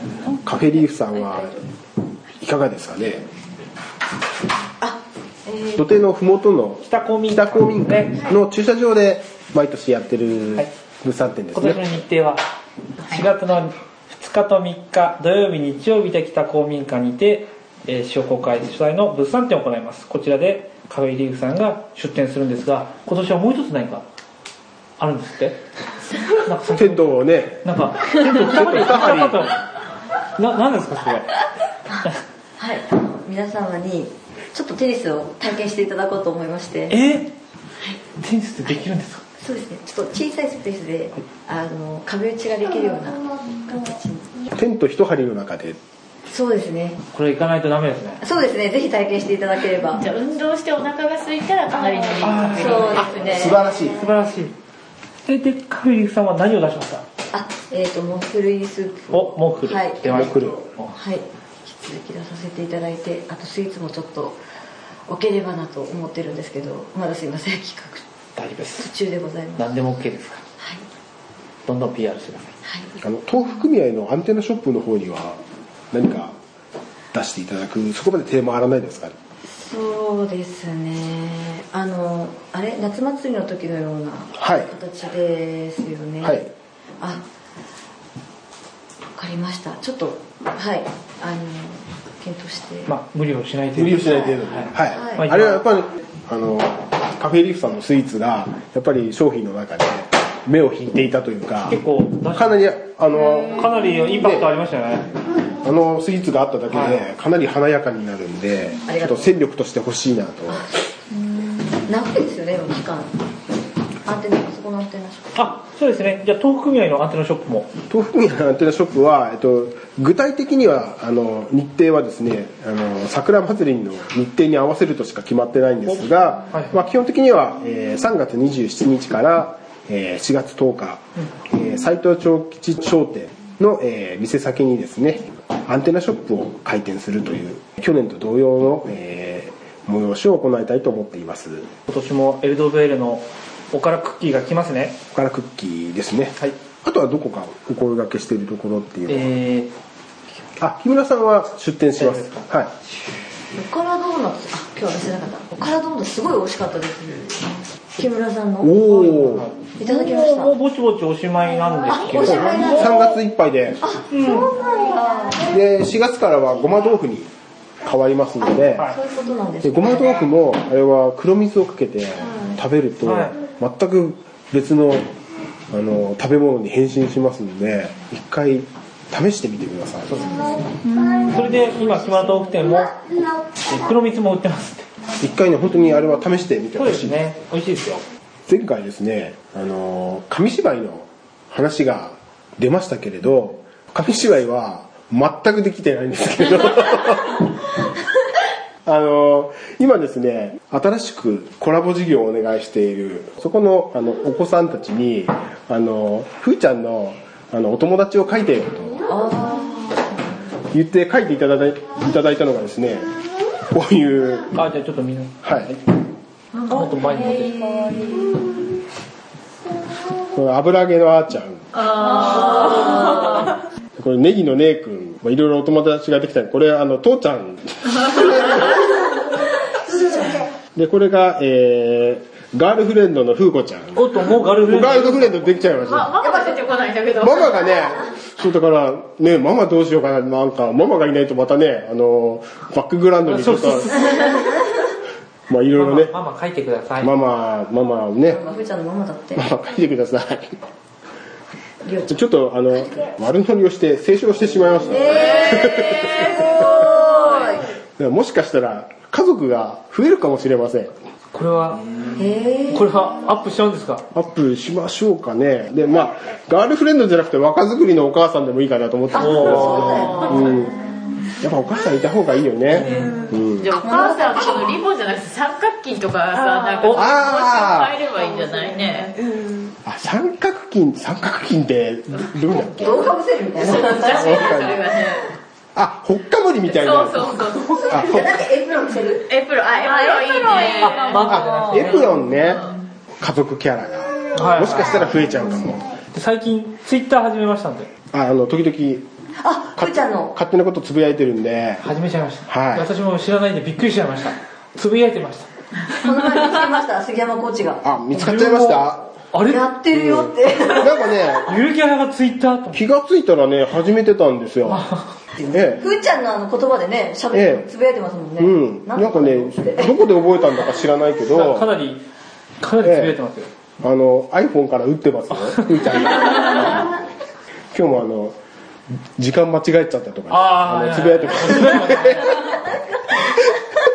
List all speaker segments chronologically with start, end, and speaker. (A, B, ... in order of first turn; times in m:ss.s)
0:00.4-0:01.6 A
0:02.4-0:03.3 A
0:04.8-0:06.0 B
0:05.8-0:11.9 A
0:06.9-0:08.2 C
0:11.5-0:12.4 C
0:13.0-0:24.0 C
0:25.0-0:25.6 C
0:26.3-0:29.6 C
0:26.7-0:29.4 A
0:30.4-0:31.4 C
0:31.9-0:37.0 B
0:36.9-0:37.3 C
0:38.2-0:39.2 C
0:39.4-0:44.3 B
0:44.5-0:45.8 A
0:46.3-0:47.0 B
0:47.1-0:48.2 C
0:48.2-0:50.0 B
0:49.8-0:53.2 D
0:52.2-0:53.4 C
0:52.5-0:53.6 B
0:53.2-0:54.1 A
0:53.9-0:54.6 C
0:55.2-0:57.0 C
0:57.3-1:00.3 B
0:59.1-1:00.9 C
1:00.0-1:00.6 A
1:00.9-1:04.4 B
1:05.1-1:08.0 B
1:08.4-1:08.9 C
1:08.7-1:09.7 B
1:09.6-1:10.4 C
1:10.6-1:10.8 B
1:11.7-1:12.5 C
1:12.6-1:13.0 B
1:13.0-1:15.4 A
1:15.9-1:16.4 A
1:17.1-1:19.2 A
1:19.5-1:26.4 B
1:24.4-1:24.7 A
1:26.2-1:26.5 A
1:29.1-1:32.9 B
1:32.9-1:35.6 C
1:33.8-1:41.8 A
1:34.2-1:35.3 B
1:41.6-1:42.6 C
1:42.3-1:44.5 A
1:43.3-1:45.1 C
1:45.5-1:50.7 A
1:46.7-1:47.0 C
1:48.8-1:49.4 B
1:50.5-1:50.8 B
1:51.8-1:53.2 B
1:54.0-1:55.5 B
1:55.3-1:57.7 C
1:57.9-2:21.7 A
2:05.9-2:06.7 C
2:21.9-2:25.0 C
2:25.1-2:29.3 A
2:29.1-2:29.7 C
2:30.6-2:32.7 A
2:32.0-2:32.5 C
2:33.6-2:38.8 B
2:38.6-2:39.5 A
2:38.8-2:43.0 C
2:39.8-2:40.6 B
2:41.9-2:43.1 B
2:42.2-2:43.8 A
2:43.8-2:45.5 B
2:44.1-2:44.5 C
2:45.4-2:47.3 A
2:47.8-2:48.9 A
2:48.4-2:50.1 B
2:49.6-2:55.1 A
2:52.2-2:52.6 B
2:53.0-2:53.4 C
2:55.7-3:00.4 A
3:01.0-3:04.9 C
3:05.2-3:07.2 A
3:06.8-3:08.0 C
3:08.5-3:17.5 A
3:18.8-3:29.1 A
3:29.1-3:30.1 B
3:30.7-3:33.1 A
3:33.7-3:34.5 A
3:34.5-3:35.8 C
3:35.4-3:35.7 A
3:36.7-3:37.8 C
3:37.8-3:38.1 B
3:40.2-3:43.3 A
3:44.0-3:49.2 A
3:50.7-3:56.1 A
3:53.9-3:55.7 C
3:55.8-3:57.7 D
3:56.2-3:56.6 B
3:57.2-4:04.2 A
4:03.2-4:04.3 C
4:05.5-4:06.1 A
4:05.7-4:07.1 C
4:07.0-4:08.4 A
4:08.2-4:09.5 B
4:09.4-4:10.6 A
4:11.8-4:12.2 B
4:12.1-4:16.9 A
4:14.9-4:17.7 B
4:18.0-4:20.9 A
4:21.3-4:21.8 C
4:22.1-4:22.9 B
4:22.7-4:24.0 C
4:24.1-4:30.8 A
4:29.1-4:30.7 B
4:29.2-4:29.8 C
4:29.9-4:30.3 D
4:31.4-4:33.7 A
4:32.7-4:33.2 C
4:33.6-4:39.2 D
4:33.8-4:34.6 B
4:36.8-4:37.1 C
4:36.9-4:38.0 A
4:39.8-4:43.1 A
4:42.8-4:44.6 B
4:43.6-4:45.3 D
4:44.1-4:44.8 A
4:45.8-4:48.4 A
4:46.7-4:48.1 D
4:47.9-4:49.3 B
4:49.3-4:52.7 D
4:50.2-4:50.9 B
4:51.1-4:52.0 C
4:51.2-4:55.9 A
4:54.4-4:55.0 C
4:56.1-4:57.9 C
4:58.1-4:59.1 A
4:59.4-5:00.3 B
4:59.8-5:01.8 A
5:01.8-5:05.5 C
5:02.5-5:02.9 A
5:05.9-5:07.9 B
5:07.8-5:09.0 A
5:08.1-5:10.3 C
5:09.4-5:11.2 B
5:10.8-5:11.5 A
5:11.5-5:12.8 C
5:12.7-5:14.9 A
5:14.7-5:15.2 C
5:15.4-5:20.0 B
5:15.5-5:15.9 A
5:17.3-5:17.7 A
5:18.4-5:21.7 A
5:21.2-5:22.0 C
5:22.6-5:23.5 C
5:22.8-5:23.2 A
5:23.8-5:26.9 A
5:27.7-5:28.4 A
5:29.2-5:32.5 A
5:30.3-5:32.4 C